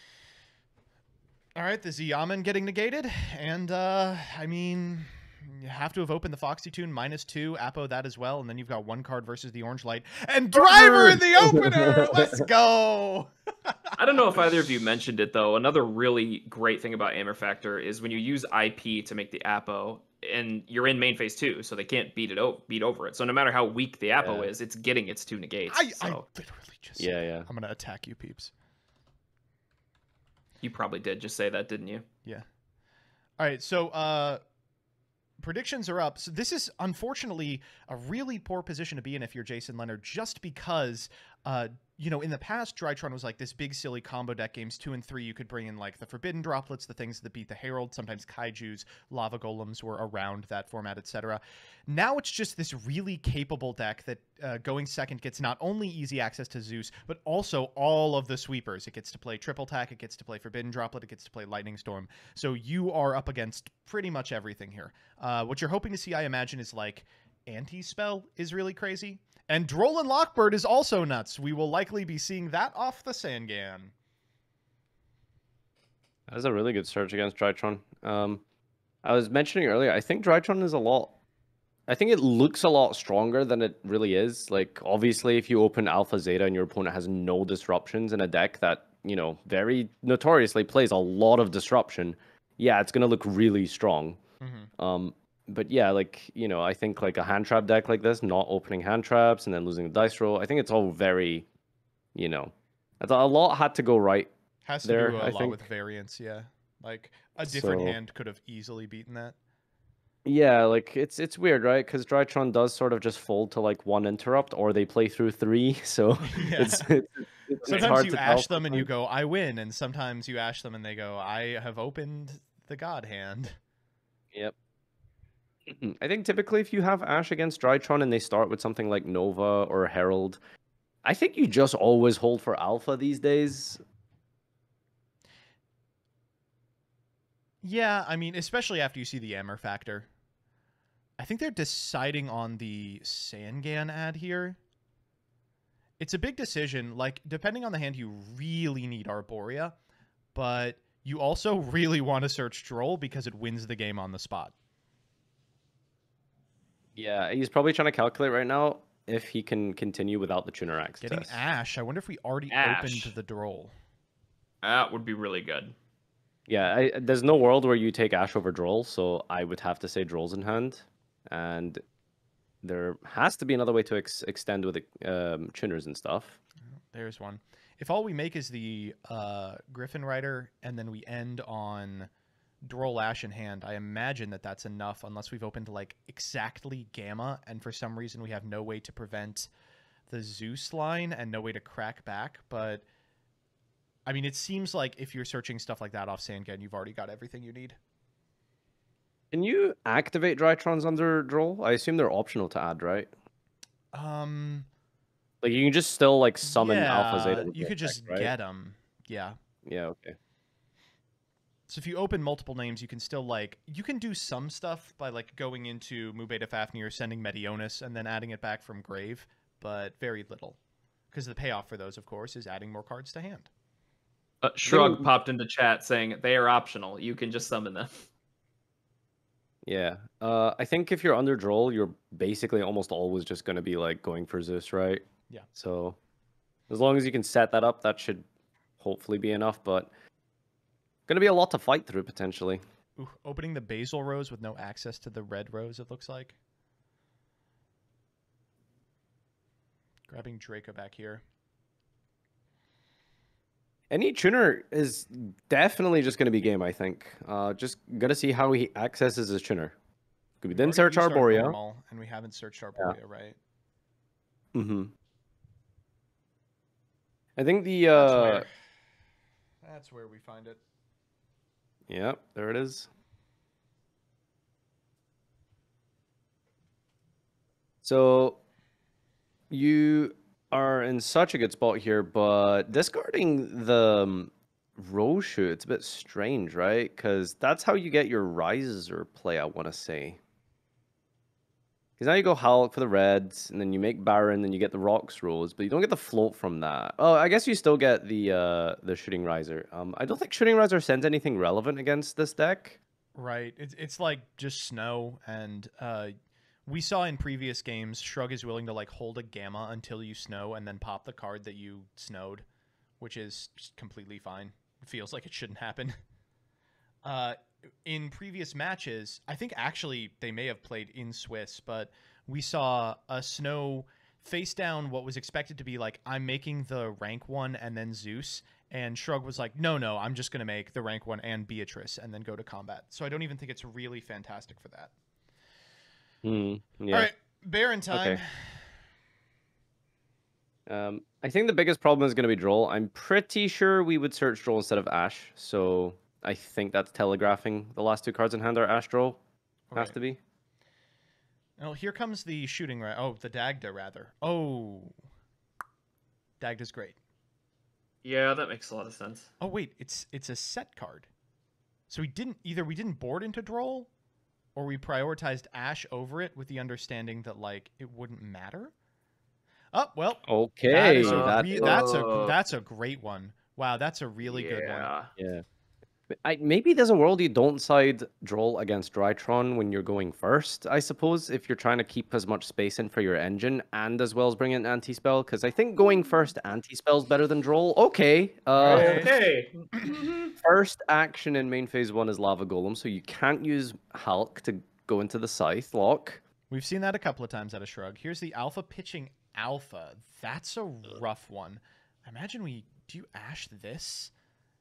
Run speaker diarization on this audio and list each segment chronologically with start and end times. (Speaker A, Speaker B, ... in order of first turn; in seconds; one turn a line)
Speaker A: 1.6-14.0
Speaker B: 10.5-12.4
Speaker C: 14.0-26.2
Speaker B: 24.2-24.5
Speaker A: 25.7-28.5
Speaker B: 27.0-27.5
Speaker C: 30.6-32.0
Speaker A: 33.4-34.4
Speaker A: 35.4-73.9
Speaker B: 76.3-78.4
Speaker B: 79.0-81.2
Speaker B: 81.9-94.2
Speaker A: 94.4-94.7
Speaker B: 94.8-101.5
Speaker B: 102.1-104.3
Speaker A: 104.7-109.3
Speaker B: 104.8-105.6
Speaker B: 107.5-108.0
Speaker B: 110.2-118.9
Speaker A: 116.2-116.9
Speaker A: 117.6-123.5
Speaker B: 125.7-130.4
Speaker B: 131.0-133.8
Speaker A: 137.6-140.1
Speaker A: 141.2-144.6
Speaker A: 146.0-149.8
Speaker A: 150.3-154.5
Speaker B: 156.9-161.3
Speaker A: 161.0-163.7
Speaker C: 162.5-163.1
Speaker C: 164.6-165.7
Speaker B: 166.5-171.8
Speaker B: 172.6-176.4
Speaker A: 176.9-182.1
Speaker A: 182.6-189.5
Speaker A: 190.1-192.8
Speaker A: 194.1-197.8
Speaker B: 199.3-203.1
Speaker A: 203.9-204.7
Speaker B: 205.4-208.3
Speaker A: 206.4-209.4
Speaker B: 209.6-210.2
Speaker A: 211.7-220.6
Speaker A: 221.1-223.5
Speaker C: 224.4-227.9
Speaker B: 224.7-225.1
Speaker B: 229.6-236.0
Speaker B: 236.7-238.2
Speaker B: 238.8-239.9
Speaker B: 241.1-242.6
Speaker A: 243.0-246.3
Speaker A: 250.1-251.2
Speaker B: 253.9-259.7
Speaker B: 260.4-261.6
Speaker A: 260.5-263.4
Speaker B: 264.5-264.9
Speaker B: 267.4-268.4
Speaker A: 267.9-268.5
Speaker A: 269.6-270.6
Speaker B: 271.9-272.9
Speaker B: 277.8-278.4
Speaker B: 279.5-290.2
Speaker B: 292.0-302.8
Speaker A: 303.1-306.1
Speaker A: 306.6-312.4
Speaker A: 313.0-316.0
Speaker A: 317.0-334.9
Speaker B: 336.2-337.1
Speaker A: 336.9-338.6
Speaker B: 337.9-338.2
Speaker B: 340.7-349.2
Speaker A: 349.7-349.9
Speaker B: 349.7-350.2
Speaker A: 351.6-354.9
Speaker A: 356.4-357.0
Speaker C: 358.0-359.3
Speaker A: 359.4-361.1
Speaker A: 361.9-363.9
Speaker A: 364.5-368.7
Speaker A: 369.7-374.9
Speaker B: 370.2-371.9
Speaker C: 371.0-372.4
Speaker C: 374.2-375.1
Speaker B: 375.2-375.4
Speaker B: 376.1-389.1
Speaker A: 388.5-389.1
Speaker C: 388.7-390.3
Speaker B: 390.4-396.2
Speaker A: 396.5-404.1